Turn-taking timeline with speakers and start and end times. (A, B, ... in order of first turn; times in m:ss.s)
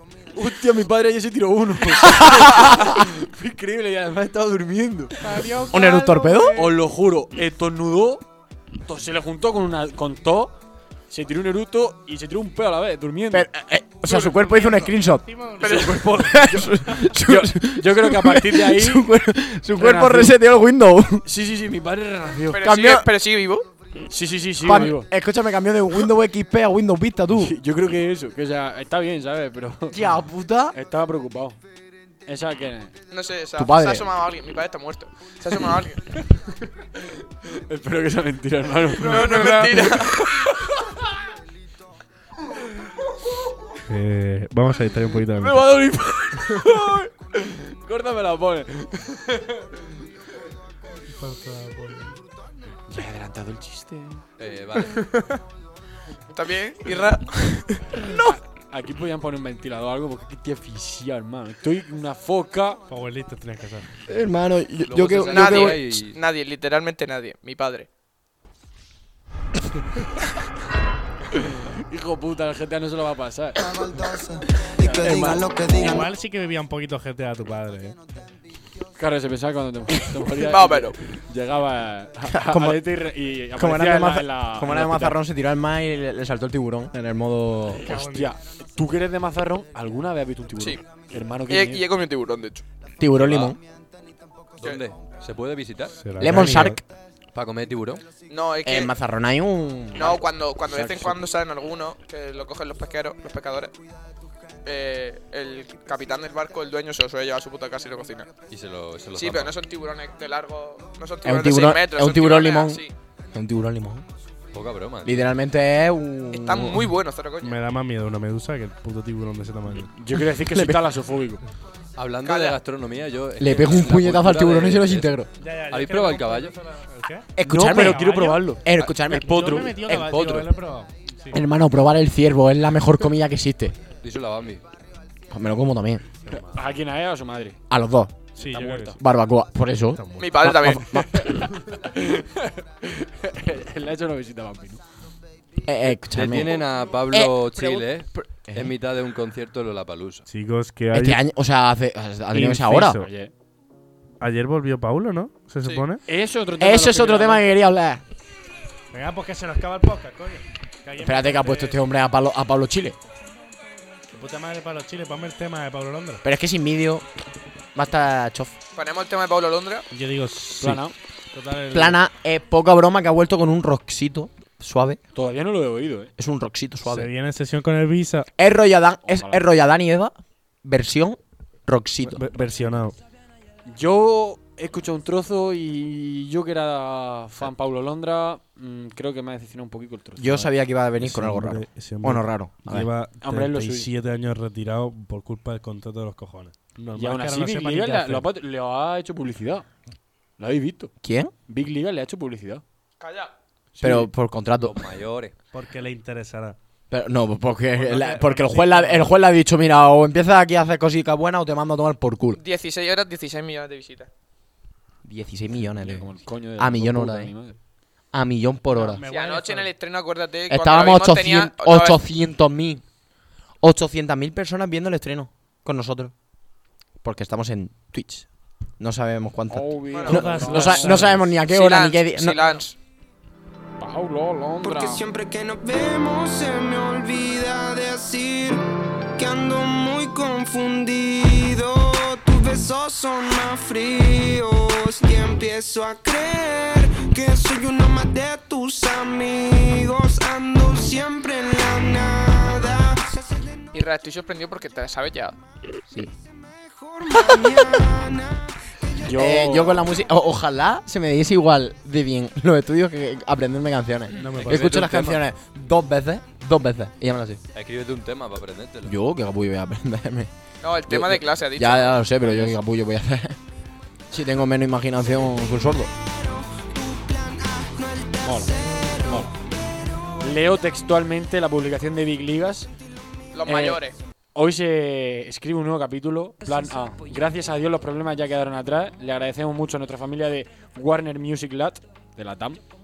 0:00.3-0:05.5 A
0:02.0-0:03.0 B
0:05.2-0:06.7 C
0:05.7-0:06.7 B
0:06.6-0:08.2 A
0:08.9-0:10.5 A
0:11.1-0:13.5 A
0:13.3-0:15.3 B
0:14.2-0:15.9 C
0:15.6-0:19.1 A
0:15.6-0:16.2 D
0:16.0-0:21.2 B
0:19.8-0:20.4 A
0:21.2-0:22.6 A
0:22.5-0:23.7 D
0:22.6-0:23.1 B
0:24.1-0:25.1 A
0:24.6-0:27.6 B
0:27.4-0:30.0 A
0:29.9-0:30.8 B
0:30.7-0:31.6 A
0:32.3-0:32.9 A
0:33.1-0:36.0 D
0:33.6-0:34.1 B
0:37.4-0:40.8 A
0:39.0-0:40.2 D
0:39.1-0:39.6 C
0:43.9-0:45.7 C
0:45.2-0:49.7 A
0:51.1-0:52.2 C
0:52.9-0:54.2 A
0:54.4-0:55.1 E
0:56.3-0:57.8 D
0:58.0-1:02.8 A
0:58.1-0:58.4 B
1:02.9-1:03.9 C
1:04.1-1:05.8 B
1:04.8-1:06.2 E
1:05.3-1:07.9 D
1:11.4-1:13.6 A
1:13.6-1:16.1 F
1:14.9-1:15.5 B
1:15.7-1:18.0 C
1:19.0-1:25.2 A
1:20.4-1:21.0 D
1:22.3-1:22.8 B
1:23.6-1:27.9 B
1:27.8-1:28.3 C
1:27.8-1:31.9 A
1:31.5-1:32.6 D
1:33.0-1:33.6 B
1:33.2-1:33.6 E
1:34.6-1:36.7 E
1:36.0-1:36.8 C
1:36.2-1:36.8 B
1:37.3-1:38.0 E
1:38.3-1:38.9 D
1:38.6-1:40.2 B
1:40.0-1:43.7 D
1:40.7-1:41.2 A
1:44.6-1:48.3 D
1:48.5-1:49.6 E
1:49.1-1:52.9 D
1:51.2-1:54.0 B
1:54.5-1:55.3 E
1:55.0-1:56.9 B
1:56.3-1:57.6 D
1:57.4-1:59.9 C
2:00.0-2:01.4 A
2:00.4-2:00.8 B
2:02.0-2:05.1 E
2:02.2-2:02.6 D
2:03.4-2:05.3 B
2:05.4-2:08.5 C
2:05.7-2:06.6 E
2:07.4-2:10.2 B
2:07.4-2:09.7 A
2:09.1-2:11.4 C
2:09.9-2:10.5 E
2:11.3-2:13.8 B
2:14.0-2:14.6 E
2:15.3-2:16.0 B
2:16.3-2:16.6 C
2:16.5-2:17.6 A
2:17.7-2:18.2 B
2:18.4-2:19.0 C
2:18.4-2:19.0 A
2:19.0-2:21.4 B
2:20.0-2:20.7 C
2:20.2-2:21.0 D
2:21.1-2:24.8 A
2:25.6-2:28.7 B
2:26.1-2:30.3 E
2:30.3-2:31.2 C
2:30.9-2:33.0 B
2:32.3-2:33.1 C
2:32.9-2:33.3 A
2:34.2-2:36.0 C
2:36.1-2:37.5 A
2:36.6-2:38.0 B
2:38.9-2:41.8 C
2:41.0-2:43.0 B
2:44.1-2:46.2 C
2:46.2-2:47.0 B
2:47.8-2:48.5 B
2:48.8-2:49.9 D
2:49.9-2:52.0 C
2:50.6-2:50.9 A
2:51.7-2:55.0 B
2:55.2-2:56.1 A
2:56.2-2:57.1 B
2:56.9-2:58.3 C
2:58.4-3:02.2 B
2:59.0-2:59.4 A
3:02.0-3:03.0 C
3:03.7-3:10.5 A
3:10.2-3:12.9 B
3:11.0-3:18.3 C
3:13.2-3:13.9 A
3:17.0-3:19.7 A
3:20.4-3:20.9 A
3:21.0-3:21.3 B
3:21.5-3:22.6 A
3:23.0-3:23.3 D
3:23.8-3:24.8 B
3:24.6-3:25.3 E
3:25.5-3:26.6 C
3:26.9-3:32.4 B
3:27.7-3:29.1 C
3:32.4-3:34.1 D
3:35.0-3:37.3 B
3:35.8-3:37.6 A
3:38.1-3:39.0 B
3:38.7-3:39.7 C
3:39.1-3:42.0 D
3:40.5-3:42.8 B
3:43.6-3:46.1 B
3:47.0-3:48.3 B
3:48.8-3:52.4 B
3:49.5-3:51.3 A
3:49.9-3:50.4 D
3:50.1-3:51.2 C
3:51.5-3:52.8 D
3:53.8-3:55.0 A
3:54.6-3:58.6 F
3:59.2-4:13.6 F
4:13.7-4:15.4 D
4:16.4-4:19.0 F
4:17.2-4:17.5 B
4:19.0-4:19.9 A
4:19.1-4:27.4 B
4:24.2-4:24.8 C
4:24.4-4:25.2 E
4:27.6-4:28.9 E
4:28.8-4:30.3 B
4:30.6-4:32.5 D
4:30.9-4:33.4 B
4:34.1-4:35.9 B
4:36.0-4:39.3 F
4:38.2-4:39.3 A
4:40.2-4:42.7 A
4:43.3-4:44.0 D
4:43.5-4:43.8 A
4:44.4-4:52.6 A
4:46.4-4:47.2 F